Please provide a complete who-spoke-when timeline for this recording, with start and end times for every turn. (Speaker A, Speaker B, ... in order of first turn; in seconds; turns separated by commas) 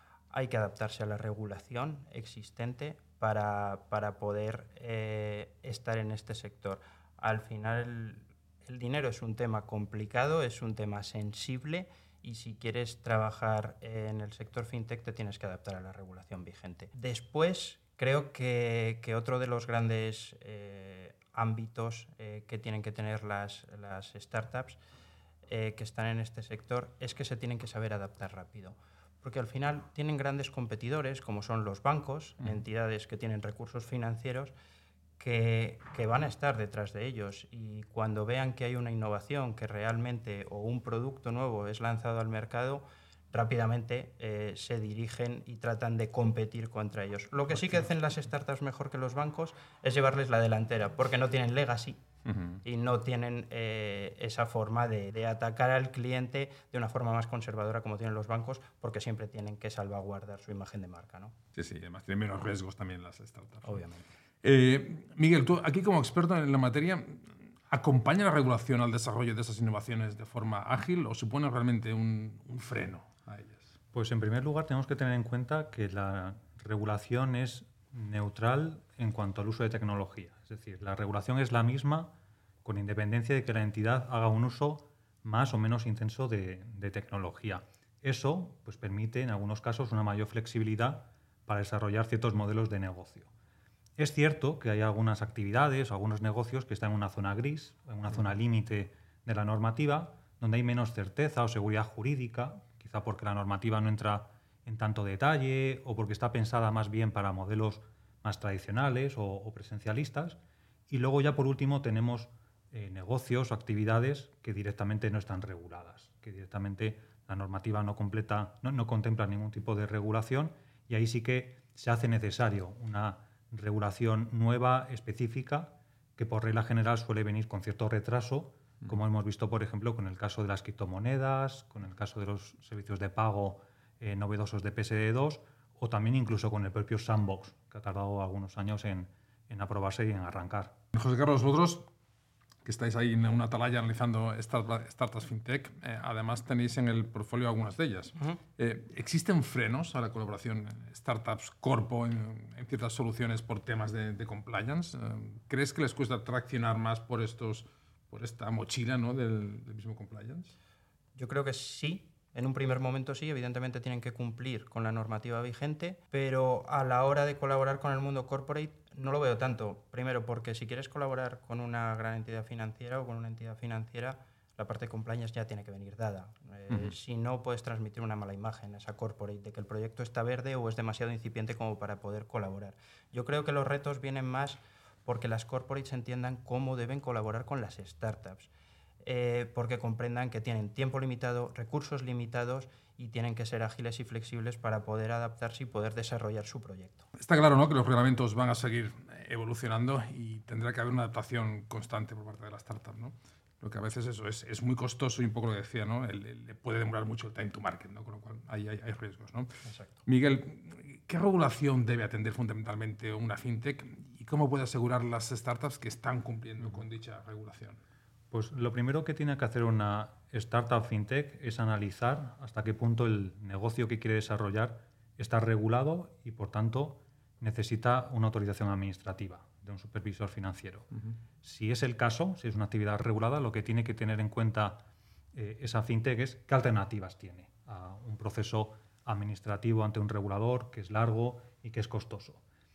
Speaker A: 0.3-24.8, Speaker A: 25.5-34.5, Speaker A: 35.2-52.0, Speaker B: 52.2-52.6, Speaker A: 52.6-61.3, Speaker B: 61.5-63.8, Speaker A: 63.6-64.1, Speaker B: 64.4-73.7, Speaker C: 73.9-82.1, Speaker C: 82.6-93.3, Speaker C: 94.0-140.8, Speaker B: 140.9-141.8, Speaker B: 142.6-160.5, Speaker A: 161.1-188.5, Speaker A: 189.0-197.1, Speaker B: 197.2-209.5, Speaker A: 209.6-210.0, Speaker B: 210.1-217.8, Speaker C: 218.3-230.9, Speaker C: 231.4-234.8, Speaker C: 235.3-242.4